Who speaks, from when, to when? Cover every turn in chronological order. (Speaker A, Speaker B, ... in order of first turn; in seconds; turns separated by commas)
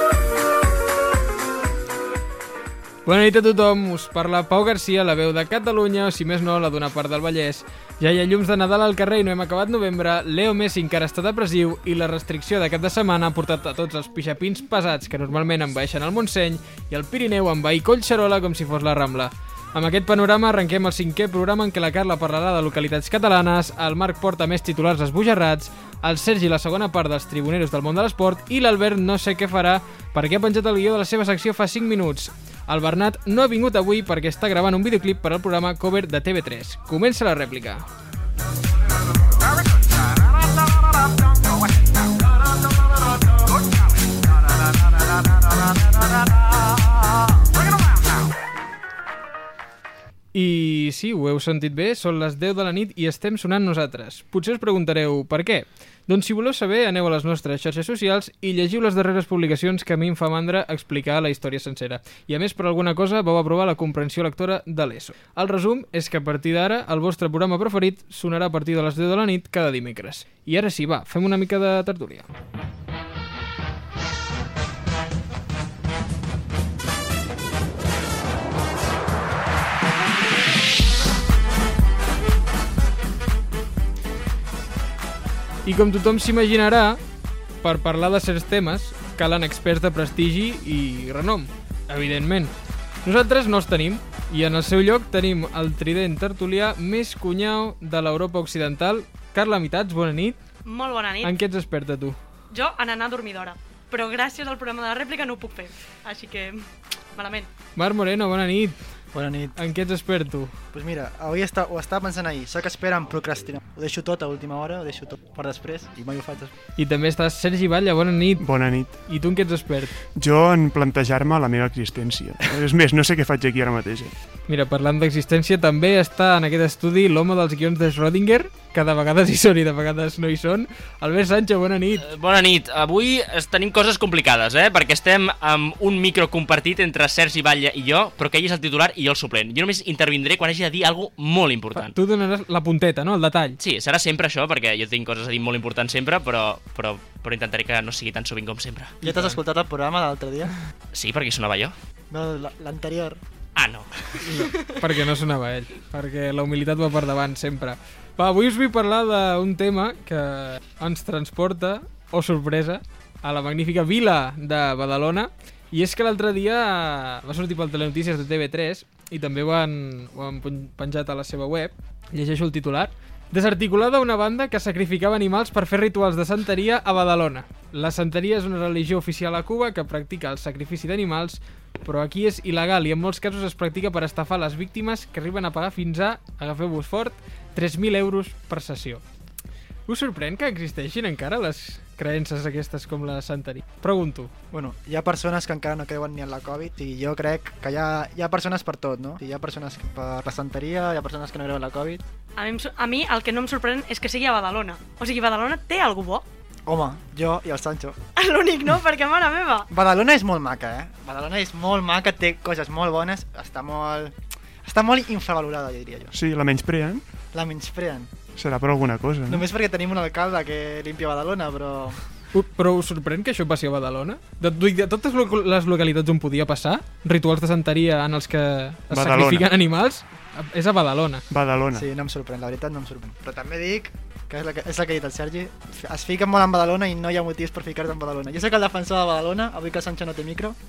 Speaker A: 3.1-37.9, Speaker A: 50.3-72.3, Speaker A: 85.7-87.0, Speaker A: 87.6-92.5, Speaker A: 93.0-100.4, Speaker B: 100.7-101.4, Speaker A: 101.2-102.2, Speaker B: 102.5-106.6, Speaker B: 107.2-107.5, Speaker A: 107.8-108.8, Speaker C: 109.1-109.6, Speaker A: 109.6-110.5, Speaker C: 110.7-116.5, Speaker A: 116.8-118.5, Speaker D: 118.4-119.0, Speaker A: 119.1-120.0, Speaker D: 120.2-124.1, Speaker A: 124.5-132.0, Speaker E: 132.0-141.9, Speaker A: 141.8-143.6, Speaker E: 143.6-148.9, Speaker C: 149.0-150.5, Speaker A: 149.0-149.4, Speaker E: 150.9-151.7, Speaker C: 152.1-153.2, Speaker E: 153.6-154.2, Speaker A: 154.2-189.0, Speaker A: 189.9-194.3, Speaker C: 194.5-202.0, Speaker B: 202.4-206.2, Speaker C: 206.7-208.0, Speaker B: 208.2-209.7, Speaker C: 209.7-216.1, Speaker D: 216.1-217.0, Speaker C: 217.3-218.1, Speaker D: 218.4-219.5, Speaker C: 219.3-222.0, Speaker A: 222.3-231.2, Speaker D: 228.9-229.5, Speaker D: 231.3-231.9, Speaker C: 231.7-240.6